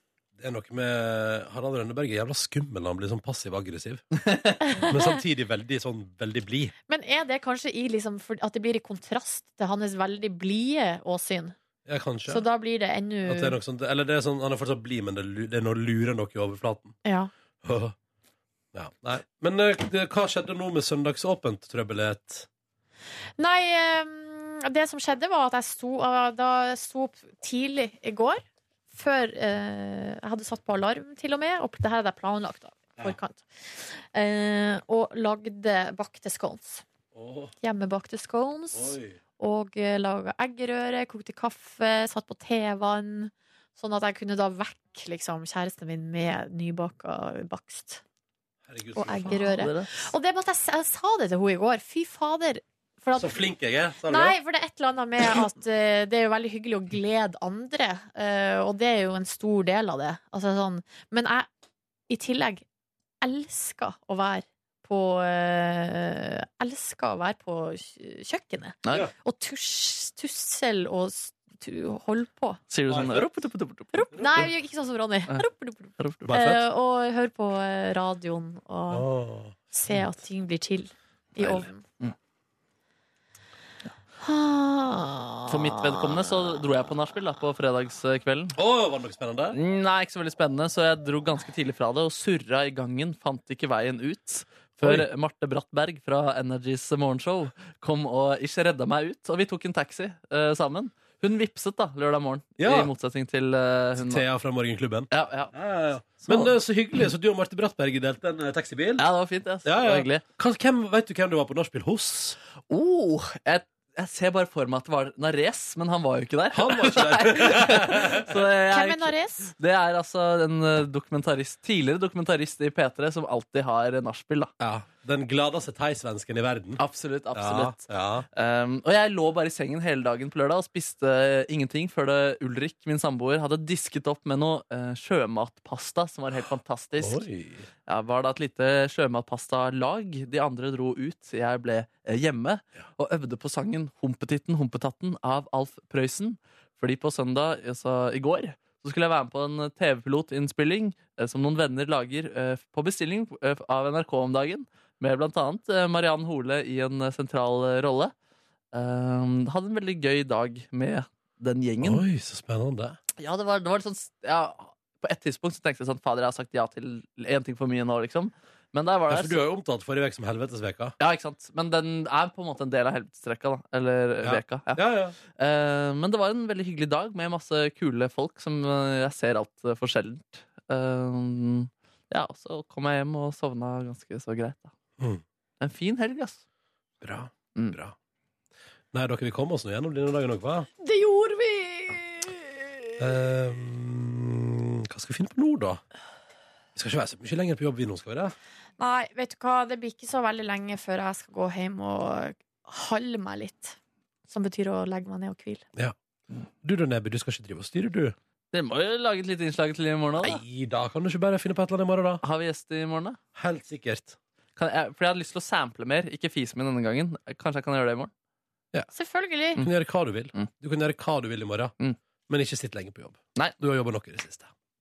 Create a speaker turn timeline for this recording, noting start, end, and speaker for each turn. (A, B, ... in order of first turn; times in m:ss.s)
0:00.4-0:04.0 A
0:04.2-0:04.6 B
0:04.8-0:06.7 A
0:06.9-0:11.6 C
0:11.8-0:12.4 A
0:12.3-0:13.6 C
0:13.2-0:16.9 A
0:17.0-0:17.3 C
0:17.6-0:17.9 A
0:18.7-0:22.5 A
0:23.4-0:36.8 C
0:37.1-0:37.5 A
0:37.6-0:48.0 C
0:38.7-0:39.2 A
0:48.7-0:49.5 A
0:49.0-0:53.4 C
0:49.4-0:50.0 B
0:53.2-0:54.3 A
0:54.1-1:01.5 C
1:02.1-1:02.6 C
1:03.2-1:12.6 C
1:12.7-1:14.1 B
1:12.9-1:13.3 A
1:13.9-1:19.0 C
1:14.1-1:14.5 A
1:16.0-1:16.3 B
1:16.3-1:16.6 A
1:18.9-1:20.1 A
1:19.7-1:21.8 C
1:24.2-1:26.3 C
1:25.5-1:28.6 B
1:28.6-1:29.6 A
1:29.5-1:44.2 B
1:34.8-1:35.1 A
1:42.6-1:42.9 A
1:44.0-1:49.0 A
1:45.1-1:46.5 B
1:49.0-1:50.2 B
1:49.6-1:52.4 A
1:52.7-2:04.5 B
1:56.5-1:58.3 A
1:58.7-1:59.5 C
2:04.6-2:06.8 A
2:06.8-2:17.2 B
2:07.3-2:08.2 A
2:17.0-2:17.7 A
2:17.9-2:38.1 B
2:38.7-2:42.0 B
2:41.8-2:43.0 A
2:43.2-2:49.4 B
2:49.1-2:50.9 A
2:51.0-2:54.8 B
2:54.2-2:55.1 A
2:55.4-3:04.7 B
3:05.6-3:06.4 B
3:07.0-3:07.9 A
3:08.9-3:10.7 A
3:10.8-3:12.6 C
3:13.0-3:15.8 A
3:16.8-3:18.3 A
3:18.8-3:23.8 C
3:24.3-3:25.6 C
3:26.6-3:28.1 A
3:28.5-3:30.4 B
3:30.2-3:32.2 A
3:32.2-3:33.2 B
3:33.4-3:34.2 A
3:34.6-3:38.1 B
3:38.9-3:39.6 C
3:39.6-3:41.7 A
3:42.3-3:44.5 A